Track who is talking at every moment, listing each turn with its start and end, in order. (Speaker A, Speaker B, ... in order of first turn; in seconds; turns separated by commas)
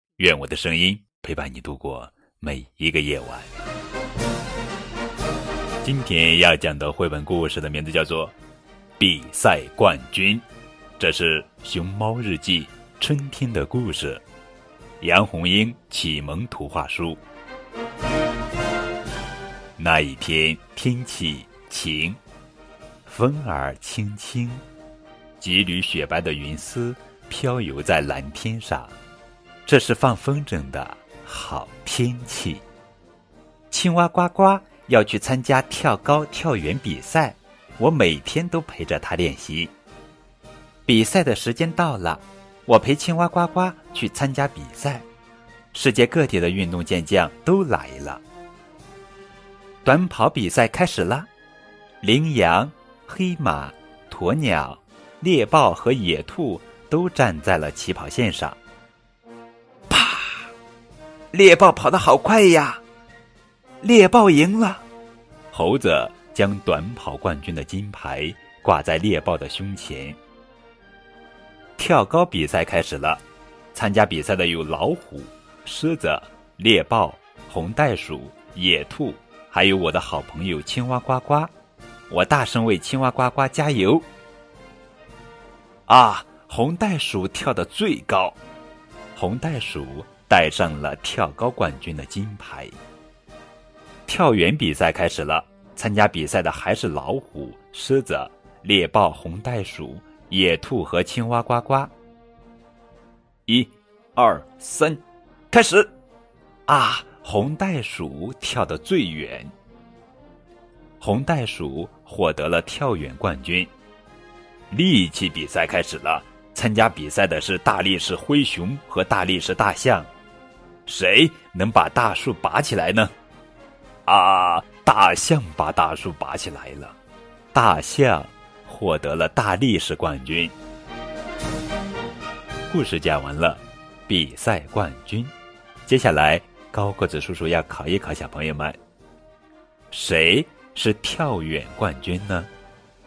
Speaker A: 0.2-3.5, Speaker A: 5.8-8.3, Speaker A: 9.0-10.4, Speaker A: 11.0-14.2, Speaker A: 15.0-17.2, Speaker A: 19.8-22.2, Speaker A: 23.1-24.6, Speaker A: 25.4-28.9, Speaker A: 29.7-32.6, Speaker A: 33.7-39.7, Speaker A: 40.9-45.1, Speaker A: 45.7-48.2, Speaker A: 49.9-51.3, Speaker A: 52.0-58.6, Speaker A: 59.9-60.5, Speaker A: 61.3-62.8, Speaker A: 63.8-64.8, Speaker A: 65.5-70.2, Speaker A: 71.8-73.2, Speaker A: 73.7-81.5, Speaker A: 82.1-84.1, Speaker A: 85.9-88.4, Speaker A: 89.2-92.7, Speaker A: 94.1-101.9, Speaker A: 103.5-105.9, Speaker A: 106.7-109.5, Speaker A: 111.0-113.7, Speaker A: 114.7-120.1, Speaker A: 120.9-123.1, Speaker A: 124.1-127.0, Speaker A: 127.5-130.5, Speaker A: 132.7-135.3, Speaker A: 135.9-138.8, Speaker A: 139.9-142.5